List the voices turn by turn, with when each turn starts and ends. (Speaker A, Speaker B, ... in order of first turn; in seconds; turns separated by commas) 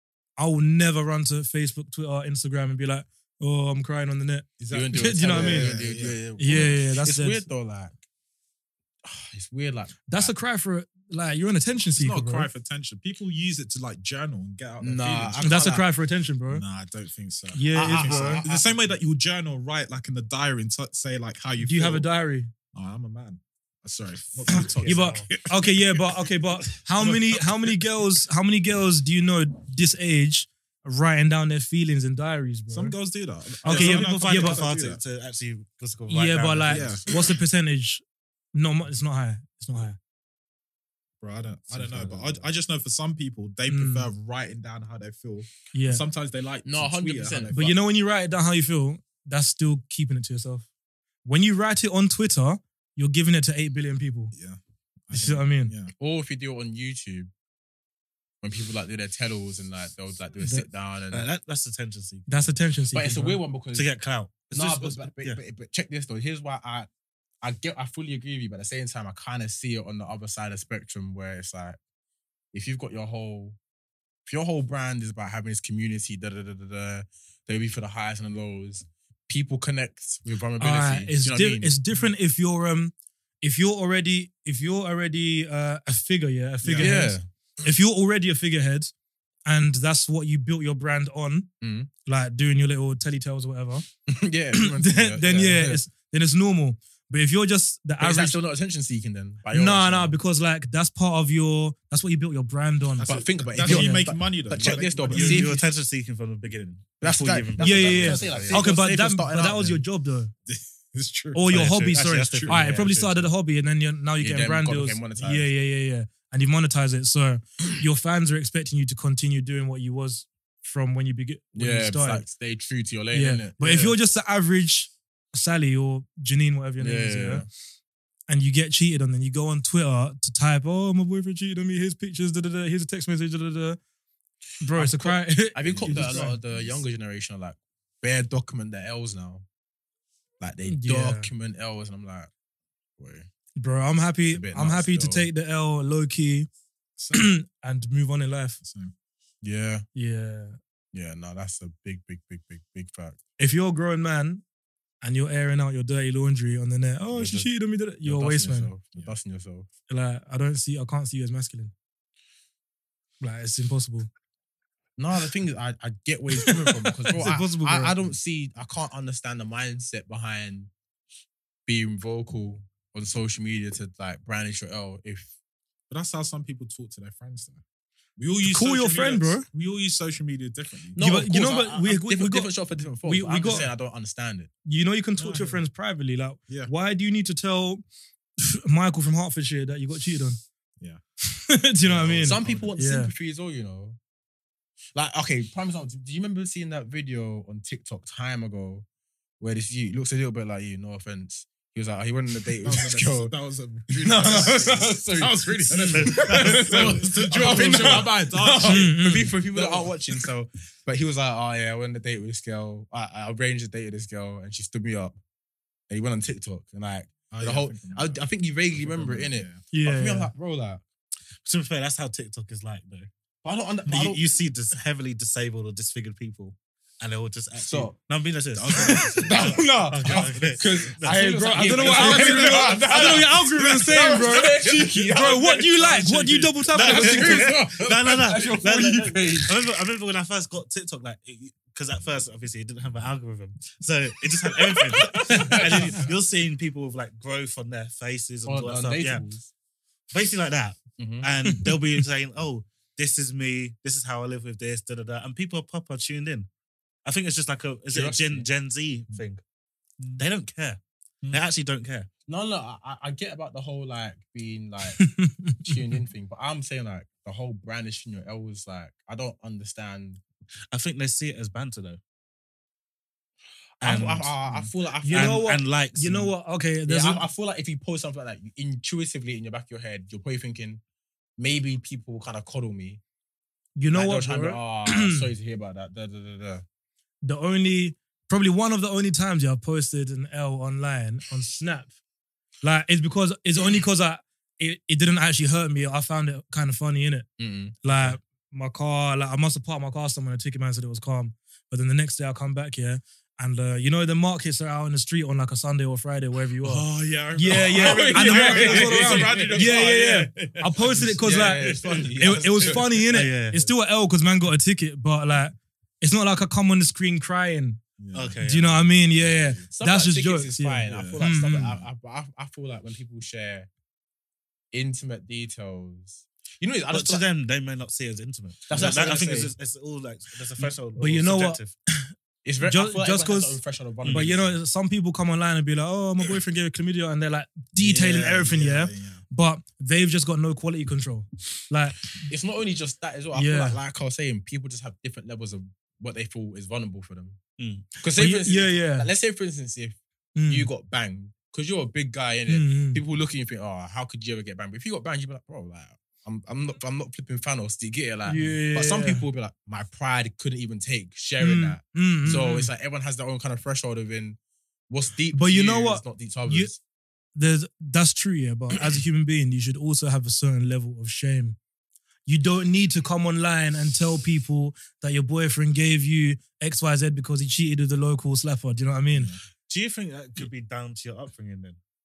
Speaker A: 0.4-5.8, Speaker B: 4.6-6.2, Speaker C: 4.7-8.0, Speaker A: 6.4-7.5, Speaker C: 9.0-10.3, Speaker A: 10.1-12.5, Speaker B: 11.9-15.5, Speaker C: 14.8-15.9, Speaker A: 15.4-16.6, Speaker B: 16.5-22.1, Speaker A: 17.5-18.4, Speaker C: 17.7-18.8, Speaker A: 21.6-22.5, Speaker B: 22.7-26.1, Speaker A: 24.5-33.0, Speaker D: 24.8-25.2, Speaker B: 27.0-27.9, Speaker B: 32.7-35.0, Speaker A: 33.6-34.6, Speaker D: 33.6-37.0, Speaker A: 36.1-38.0, Speaker B: 36.7-37.1, Speaker A: 38.5-40.0, Speaker B: 41.2-47.8, Speaker D: 41.8-42.4, Speaker A: 43.7-44.1, Speaker A: 45.7-46.0, Speaker C: 46.6-47.6, Speaker A: 47.5-50.7, Speaker A: 51.2-54.3, Speaker B: 54.3-55.9, Speaker A: 55.1-55.7, Speaker C: 56.0-57.3, Speaker C: 58.4-61.2, Speaker D: 61.1-62.5, Speaker A: 62.3-63.4, Speaker C: 62.9-63.9, Speaker D: 63.7-65.4, Speaker C: 64.5-66.9, Speaker C: 67.4-71.8, Speaker C: 72.5-73.6, Speaker C: 74.3-81.8, Speaker A: 80.6-88.9, Speaker B: 86.6-87.0, Speaker C: 86.8-87.2, Speaker A: 89.5-91.5, Speaker C: 91.6-91.9, Speaker A: 92.0-93.9, Speaker C: 94.1-95.8, Speaker A: 94.5-98.4, Speaker C: 98.0-100.2, Speaker A: 99.5-103.1, Speaker B: 103.0-105.5, Speaker C: 103.0-105.6, Speaker A: 103.6-104.1, Speaker D: 104.6-108.7, Speaker A: 105.1-105.5, Speaker C: 107.0-109.8, Speaker A: 107.6-110.3, Speaker B: 110.5-112.6, Speaker A: 111.3-122.3, Speaker D: 111.5-113.3, Speaker C: 114.2-115.5, Speaker C: 121.5-124.0, Speaker A: 123.1-127.5, Speaker C: 126.8-127.5, Speaker A: 128.3-133.8, Speaker A: 134.6-136.4, Speaker C: 134.8-139.4, Speaker B: 135.6-136.8, Speaker C: 140.4-142.3, Speaker A: 140.7-141.3, Speaker C: 143.0-143.3, Speaker A: 143.6-146.5, Speaker C: 144.2-145.3, Speaker B: 147.0-147.2, Speaker A: 147.1-148.6, Speaker B: 148.6-148.9, Speaker C: 149.4-149.9, Speaker A: 149.9-150.6, Speaker C: 150.9-153.2, Speaker A: 153.4-154.4, Speaker A: 155.0-158.7, Speaker C: 157.1-157.5, Speaker C: 158.0-159.7, Speaker A: 159.9-161.7, Speaker A: 163.2-164.1, Speaker C: 165.0-170.7, Speaker A: 166.4-167.9, Speaker C: 171.7-175.3, Speaker B: 175.9-177.6, Speaker B: 178.2-181.0, Speaker A: 178.4-179.5, Speaker C: 180.9-184.5, Speaker A: 181.0-182.5, Speaker A: 183.0-183.7, Speaker A: 184.7-187.8, Speaker B: 185.2-185.6, Speaker A: 188.4-190.4, Speaker A: 191.3-193.1, Speaker B: 191.8-192.7, Speaker C: 192.2-194.0, Speaker C: 194.9-198.8, Speaker C: 199.4-203.3, Speaker B: 202.6-210.2, Speaker C: 203.9-215.2, Speaker D: 205.8-207.0, Speaker A: 208.6-209.3, Speaker C: 215.9-220.8, Speaker B: 217.3-218.2, Speaker B: 218.7-219.6, Speaker A: 219.7-220.3, Speaker D: 221.4-223.1, Speaker C: 223.4-224.2, Speaker D: 223.9-231.2, Speaker C: 227.6-228.0, Speaker B: 228.6-229.2, Speaker C: 228.7-239.7, Speaker A: 231.1-237.6, Speaker B: 231.8-233.4, Speaker B: 233.9-235.2, Speaker D: 236.7-249.2, Speaker C: 244.7-246.1, Speaker C: 248.4-249.5, Speaker D: 250.1-256.5, Speaker C: 251.0-251.3, Speaker D: 257.1-259.4, Speaker C: 257.9-258.5, Speaker B: 260.0-260.2, Speaker D: 260.2-260.8, Speaker D: 261.3-262.1, Speaker C: 262.3-265.0, Speaker A: 265.0-265.8, Speaker C: 265.6-270.2, Speaker D: 270.7-272.0, Speaker C: 273.8-275.5, Speaker D: 273.8-276.3, Speaker A: 275.0-277.2, Speaker C: 276.9-280.8, Speaker C: 281.4-283.0, Speaker A: 283.8-285.3, Speaker C: 283.9-286.6, Speaker A: 287.2-291.9, Speaker A: 292.6-297.3, Speaker C: 297.4-298.1, Speaker A: 297.8-317.8, Speaker B: 306.8-312.1, Speaker C: 307.5-309.8, Speaker D: 308.2-309.5, Speaker C: 311.2-313.0, Speaker D: 313.1-313.6, Speaker B: 318.0-318.5, Speaker D: 318.1-318.9, Speaker A: 318.4-321.8, Speaker B: 319.1-319.7, Speaker C: 319.7-323.7, Speaker B: 320.9-321.8, Speaker C: 324.7-327.3, Speaker D: 326.9-331.7, Speaker C: 328.7-329.5, Speaker A: 331.0-332.1, Speaker C: 332.4-334.6, Speaker A: 332.6-342.1, Speaker B: 337.8-339.2, Speaker C: 342.3-347.4, Speaker A: 343.3-343.8, Speaker D: 347.6-347.9, Speaker C: 348.0-364.4, Speaker A: 348.1-349.1, Speaker A: 350.4-350.7, Speaker A: 352.5-353.0, Speaker A: 358.3-359.2, Speaker A: 361.4-362.7, Speaker C: 364.9-366.8, Speaker A: 365.3-366.7, Speaker A: 367.4-371.6, Speaker A: 372.3-379.3, Speaker B: 379.1-379.4, Speaker D: 379.7-381.8